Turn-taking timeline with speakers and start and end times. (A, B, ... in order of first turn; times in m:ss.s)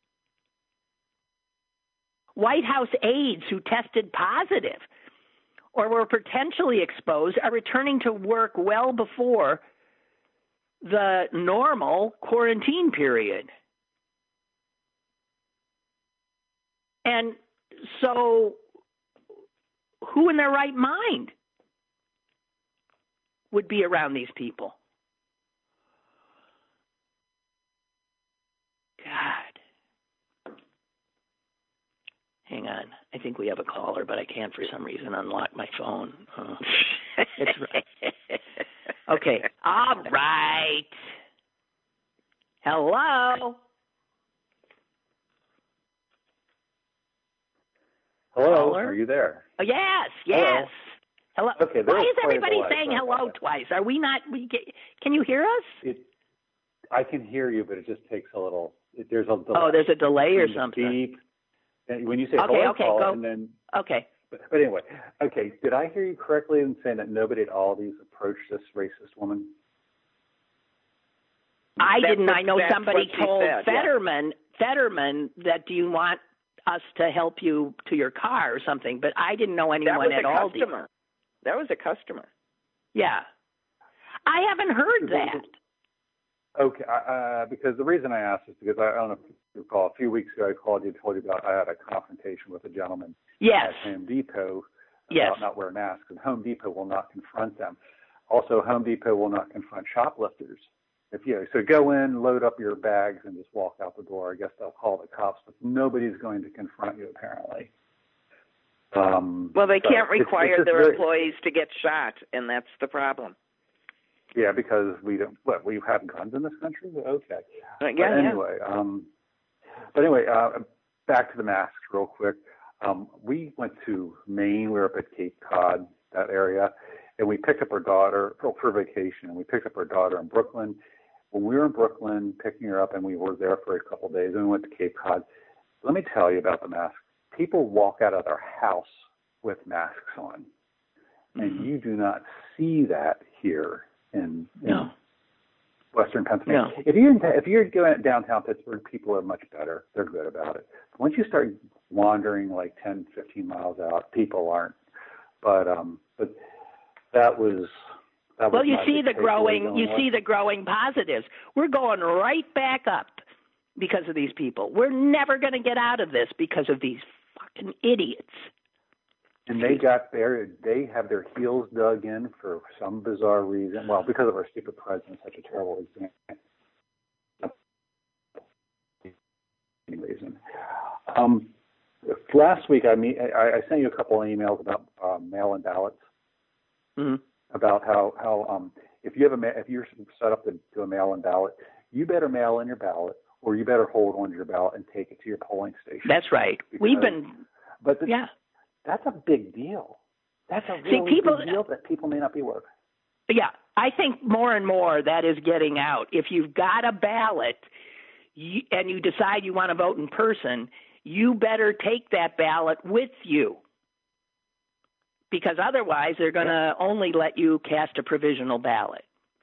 0:02.4-0:04.8 A
0:05.7-0:09.6 A
0:10.8-0:13.5 A
0:17.0-0:18.6 A
0:20.0-0:21.3 A
0:23.5-0:24.8 A
0:29.0-0:29.6 A
0:32.5-0:36.8 A
0:37.4-0:37.8 A
0:39.1-0:40.9 A
0:42.6-0:43.6 A
0:48.3-0:49.4 B
0:48.4-0:49.0 A
0:49.6-0:55.8 A
0:50.3-0:50.7 B
0:51.6-0:53.3 B
0:55.8-0:56.1 B
0:56.9-1:01.2 B
0:59.5-1:01.0 A
1:01.9-1:03.6 B
1:02.4-1:03.2 A
1:03.7-1:04.1 A
1:04.3-1:09.5 B
1:11.8-1:20.7 A
1:12.0-1:13.9 C
1:19.8-1:20.9 C
1:21.4-1:22.3 C
1:22.9-1:23.2 A
1:24.2-1:25.5 A
1:25.0-1:25.5 B
1:26.6-1:37.8 B
1:33.4-1:33.9 A
1:35.1-1:35.4 A
1:38.3-1:47.7 B
1:48.9-1:51.0 B
1:49.5-1:53.3 C
1:54.3-1:59.1 B
1:57.8-1:58.4 C
1:59.9-2:10.8 B
2:11.3-2:15.2 B
2:15.8-2:20.5 B
2:21.4-2:21.7 A
2:21.4-2:24.9 B
2:24.7-2:24.9 A
2:25.9-2:34.8 B
2:26.5-2:26.8 A
2:35.4-2:36.4 B
2:37.1-2:37.7 B
2:38.4-2:40.0 B
2:38.5-2:43.2 A
2:43.8-2:48.5 A
2:49.5-2:56.4 B
2:49.5-2:49.8 A
2:59.9-3:00.4 B
3:01.0-3:01.5 B
3:02.0-3:06.0 B
3:07.5-3:16.2 B
3:16.0-3:17.4 A
3:16.7-3:17.2 B
3:17.8-3:18.1 B
3:18.8-3:22.7 B
3:20.8-3:21.6 A
3:23.3-3:27.6 A
3:28.3-3:33.6 A
3:35.3-3:39.0 A